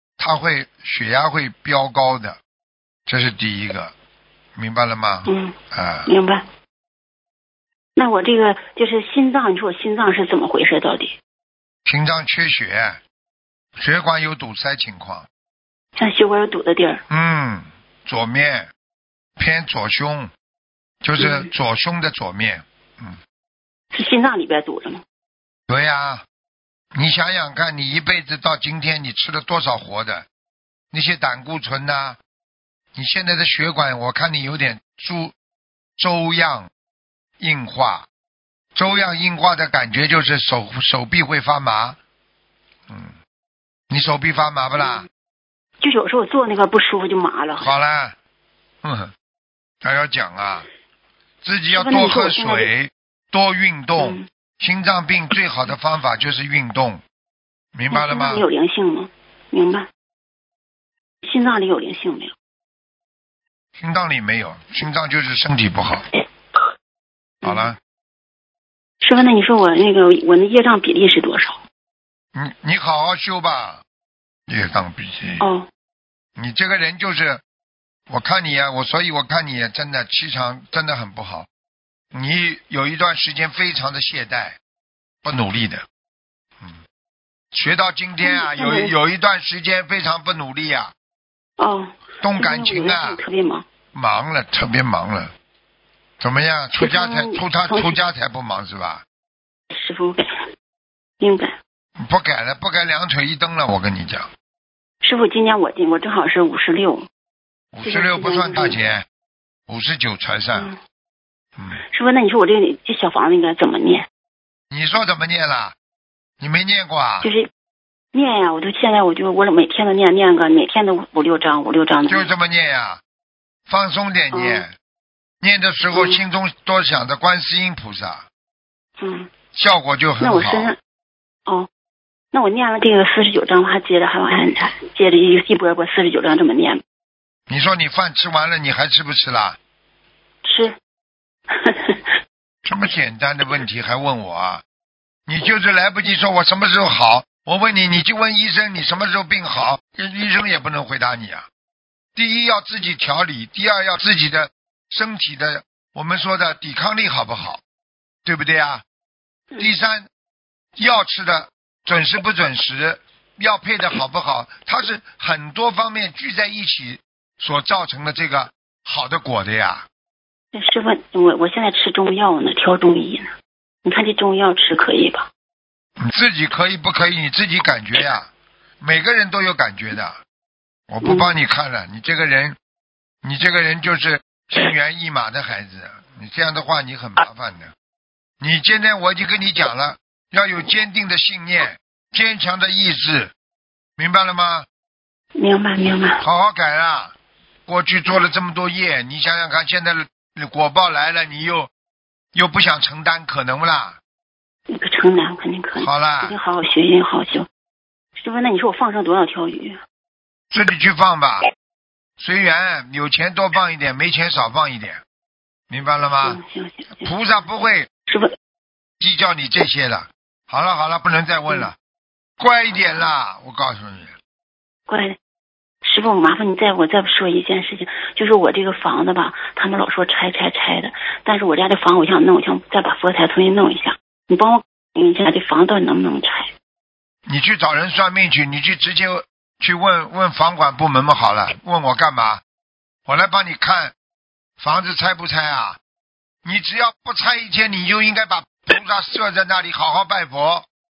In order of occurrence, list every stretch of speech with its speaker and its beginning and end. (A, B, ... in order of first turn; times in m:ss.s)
0:00.2-0:02.4 A
0:03.1-0:03.9 A
0:04.6-0:06.1 A
0:05.2-0:06.4 B
0:08.0-0:11.2 B
0:11.8-0:13.0 A
0:13.8-0:15.3 A
0:16.0-0:17.0 B
0:17.1-0:18.7 A
0:19.4-0:20.3 A
0:21.0-0:23.2 A
0:21.2-0:21.5 B
0:23.9-0:25.0 B
0:25.7-0:26.2 A
0:26.9-0:30.3 A
0:30.9-0:32.2 A
0:32.9-0:35.3 A
0:36.0-0:36.7 A
0:37.4-0:38.1 A
0:38.8-0:42.0 A
0:42.9-0:43.2 A
0:43.9-0:45.1 A
0:44.8-0:45.1 B
0:45.8-0:47.7 B
0:47.6-0:48.2 A
0:48.8-0:49.1 A
0:49.8-0:50.7 A
0:51.4-0:57.0 A
0:51.8-0:52.7 B
0:54.0-0:54.3 B
0:57.7-0:58.4 A
0:57.9-0:59.9 B
1:01.2-1:02.3 B
1:03.8-1:06.0 A
1:07.4-1:07.8 B
1:07.4-1:07.8 A
1:09.0-1:11.6 B
1:12.3-1:13.8 A
1:14.5-1:15.4 A
1:15.4-1:15.7 B
1:16.4-1:17.4 A
1:18.1-1:21.5 A
1:22.1-1:24.6 A
1:25.2-1:25.8 A
1:27.5-1:30.9 A
1:28.2-1:28.9 B
1:31.6-1:33.6 B
1:32.2-1:33.2 A
1:33.9-1:35.3 A
1:36.2-1:39.0 A
1:36.8-1:38.0 B
1:39.7-1:40.3 B
1:41.2-1:41.6 B
1:42.0-1:44.3 A
1:45.0-1:47.1 B
1:47.7-1:49.0 A
1:47.8-1:48.8 B
1:49.7-1:50.7 A
1:51.7-1:54.1 B
1:54.7-1:55.8 A
1:56.4-1:57.3 A
1:57.2-1:57.5 B
1:58.1-2:02.3 B
2:02.1-2:03.0 A
2:03.7-2:04.7 A
2:04.3-2:04.6 B
2:05.4-2:08.3 A
2:05.9-2:06.2 B
2:09.0-2:09.3 B
2:09.5-2:10.7 A
2:10.2-2:10.8 B
2:12.3-2:16.8 B
2:17.5-2:19.6 A
2:20.4-2:20.8 B
2:21.5-2:22.1 B
2:22.7-2:24.6 A
2:25.3-2:31.5 A
2:32.1-2:37.6 A
2:38.2-2:38.8 A
2:39.6-2:40.1 A
2:40.8-2:49.9 A
2:50.5-2:53.3 B
2:53.8-2:55.3 B
2:56.0-2:58.3 A
2:58.8-3:00.2 A
3:00.9-3:02.6 A
3:01.0-3:01.3 B
3:03.2-3:07.7 A
3:08.4-3:13.3 A
3:14.0-3:14.7 A
3:15.4-3:16.2 B
3:16.2-3:17.1 A
3:17.7-3:21.7 A
3:22.3-3:24.0 A
3:24.7-3:27.5 B
3:25.8-3:26.4 A
3:28.1-3:29.8 B
3:30.5-3:31.5 A
3:32.2-3:35.0 A
3:35.7-3:36.4 A
3:36.2-3:37.1 B
3:37.0-3:37.9 A
3:38.1-3:38.3 B
3:39.0-3:41.7 A
3:42.4-3:44.2 A
3:44.9-3:45.2 B
3:45.8-3:56.5 B
3:57.3-4:02.4 A
4:03.1-4:03.9 A
4:04.6-4:05.8 A
4:06.4-4:10.7 A